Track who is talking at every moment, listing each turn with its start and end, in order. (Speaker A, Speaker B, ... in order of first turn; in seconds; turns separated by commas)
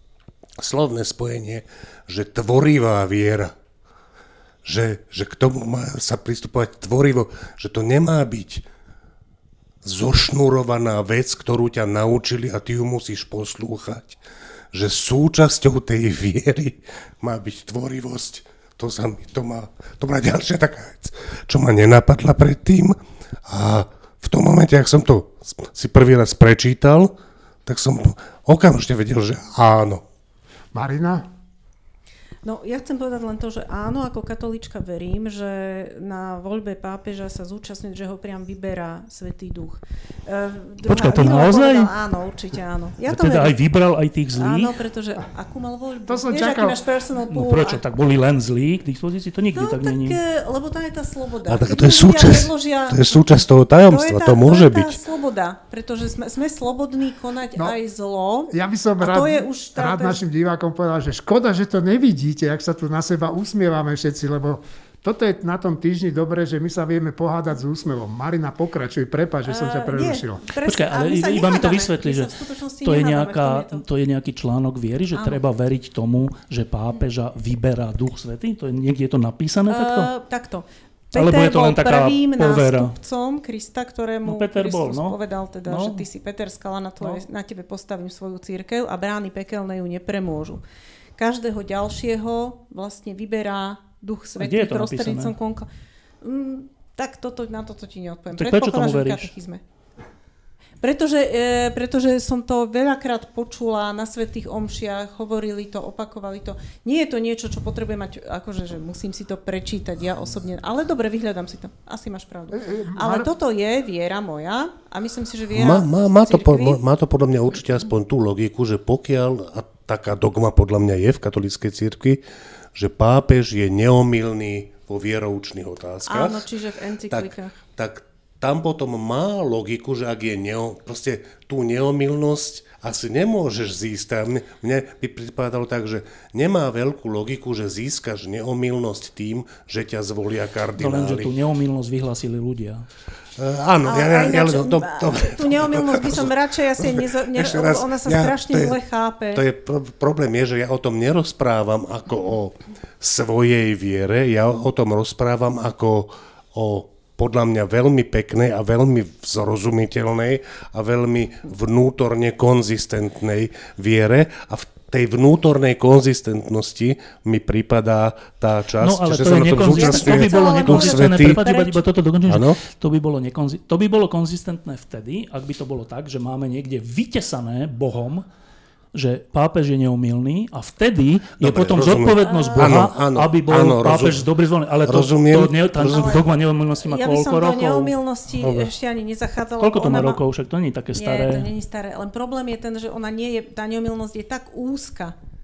Speaker A: 0.6-3.5, Speaker A: 4.6-8.6, Speaker A: 9.8-14.2, Speaker A: 14.7-27.1, Speaker A: 27.6-30.0, Speaker B: 30.7-31.2, Speaker C: 32.4-43.6, Speaker D: 40.8-41.9, Speaker D: 43.1-44.7, Speaker C: 44.4-47.8, Speaker B: 46.0-46.9, Speaker D: 47.3-50.2, Speaker C: 49.5-53.2, Speaker A: 51.5-55.0, Speaker C: 53.8-60.2, Speaker B: 58.5-70.4, Speaker C: 69.5-73.8, Speaker D: 70.6-72.3, Speaker D: 72.8-80.1, Speaker C: 75.1-75.4, Speaker C: 79.7-90.6, Speaker D: 81.1-82.9, Speaker D: 84.2-86.0, Speaker C: 91.2-95.7, Speaker D: 94.4-95.3, Speaker C: 96.2-99.6, Speaker D: 98.3-99.3, Speaker C: 100.8-116.8, Speaker B: 112.5-113.3, Speaker A: 115.5-122.2, Speaker A: 122.7-126.5, Speaker C: 126.0-127.5, Speaker A: 127.1-141.3, Speaker D: 140.8-142.9, Speaker A: 143.4-148.8, Speaker C: 143.8-149.4, Speaker A: 149.3-171.4, Speaker D: 168.8-178.2, Speaker C: 169.7-171.8, Speaker A: 172.3-172.6, Speaker D: 178.9-187.9, Speaker A: 181.4-184.2, Speaker C: 182.2-182.8, Speaker A: 184.9-186.2, Speaker C: 185.8-186.2, Speaker C: 186.8-190.2, Speaker A: 188.4-188.7, Speaker D: 189.6-191.5, Speaker C: 190.9-195.1